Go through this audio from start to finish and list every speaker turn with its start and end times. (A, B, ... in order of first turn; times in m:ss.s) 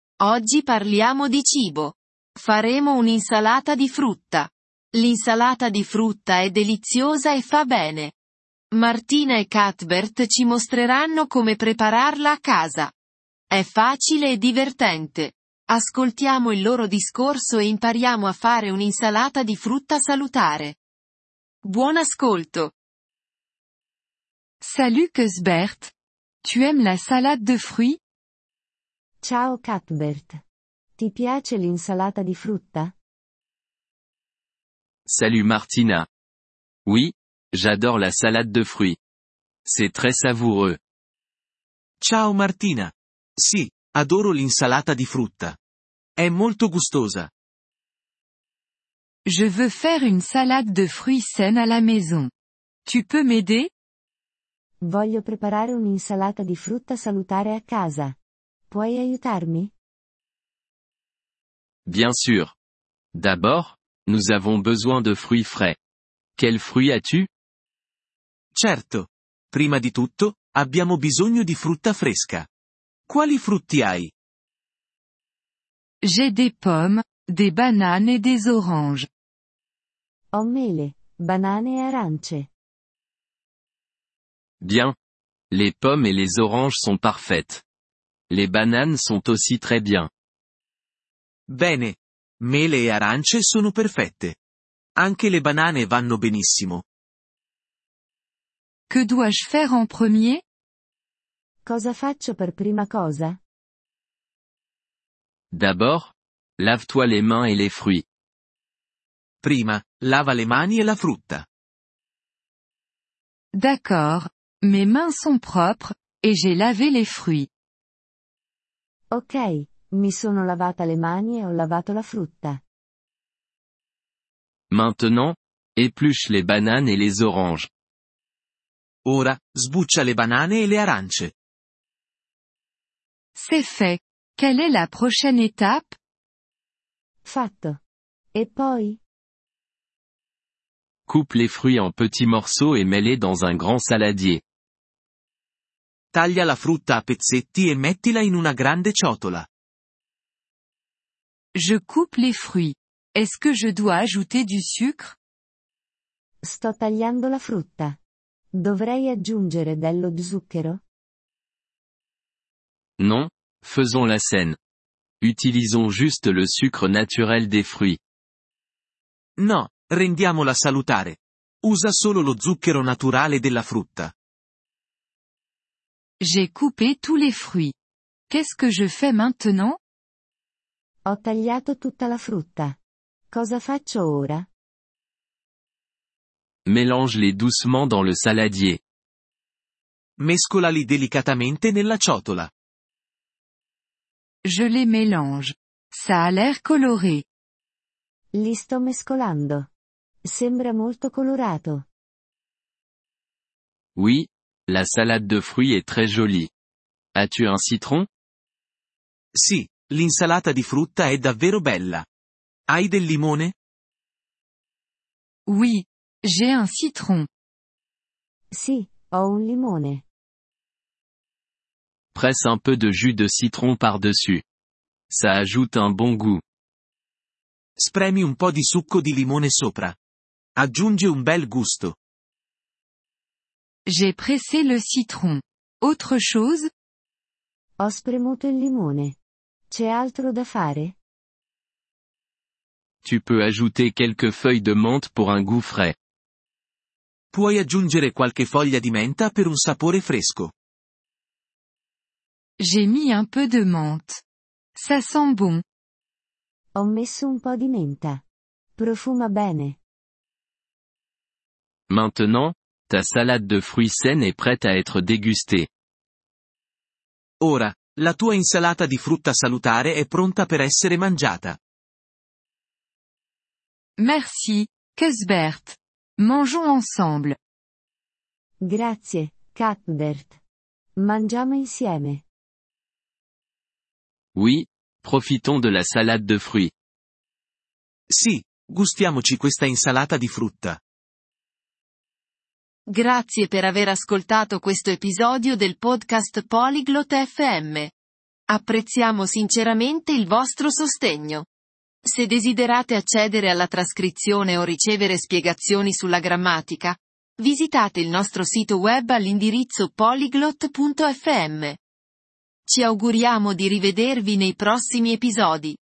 0:00.2-0:08.2 A
0:08.7-0:12.9 A
0:13.5-0:20.8 A
0:21.6-0:22.7 A
0:24.6-0:25.9 B
0:26.4-0:28.0 B
0:29.2-0:30.4 C
0:31.0-0:33.0 C
0:35.1-0:36.1 D
0:36.9-0:39.0 D
0:39.6-0:40.8 D
0:42.0-0:45.6 E
0:46.2-0:47.3 E
0:49.3-0:52.3 B
0:52.9-0:53.7 B
0:54.8-0:58.2 C
0:58.7-0:59.7 C
1:01.9-1:02.5 D
1:03.1-1:05.8 D
1:06.4-1:07.3 D
1:08.5-1:12.5 E
1:13.1-1:14.1 E
1:16.0-1:19.1 B
1:20.3-1:22.5 C
1:24.6-1:25.0 D
1:25.5-1:27.6 D
1:28.3-1:30.1 D
1:31.5-1:34.4 E
1:35.0-1:36.8 E
1:38.9-1:40.4 B
1:41.6-1:43.4 C
1:45.5-1:48.0 D
1:49.4-1:51.5 E
1:53.5-1:57.5 B
1:59.1-2:02.6 C
2:04.7-2:07.7 D
2:09.0-2:11.3 E
2:13.4-2:16.0 B
2:17.2-2:17.8 C
2:18.3-2:19.0 C
2:21.1-2:24.4 D
2:26.1-2:29.5 E
2:31.6-2:35.2 B
2:36.4-2:38.0 C
2:38.5-2:40.8 C
2:43.0-2:44.6 D
2:45.2-2:48.0 D
2:49.4-2:54.1 E
2:56.2-2:57.7 B
2:58.3-2:59.8 B
3:01.1-3:02.8 C
3:03.3-3:04.5 C
3:06.7-3:08.8 D
3:10.2-3:12.5 E
3:14.4-3:17.2 B
3:18.3-3:19.7 C
3:20.2-3:21.9 C
3:24.0-3:26.5 D
3:27.2-3:28.1 D
3:29.3-3:32.1 E
3:32.7-3:33.6 E
3:35.5-3:37.3 B
3:38.5-3:40.0 C
3:42.1-3:44.4 D
3:45.1-3:46.4 D
3:47.8-3:50.0 E
3:50.6-3:52.0 E
3:53.9-3:56.7 B
3:57.8-3:59.2 C
3:59.7-4:01.0 C
4:03.0-4:06.0 D
4:07.3-4:10.5 E
4:12.6-4:14.2 B
4:14.8-4:15.6 B
4:16.8-4:18.2 C
4:18.8-4:19.8 C
4:21.9-4:25.7 D
4:27.4-4:31.6 E
4:34.0-4:37.4 B
4:38.6-4:40.4 C
4:41.0-4:42.2 C
4:44.4-4:46.7 D
4:48.1-4:50.8 E
4:52.9-4:57.9 A
4:58.5-5:01.5 A
5:02.0-5:11.8 A
5:12.7-5:15.8 A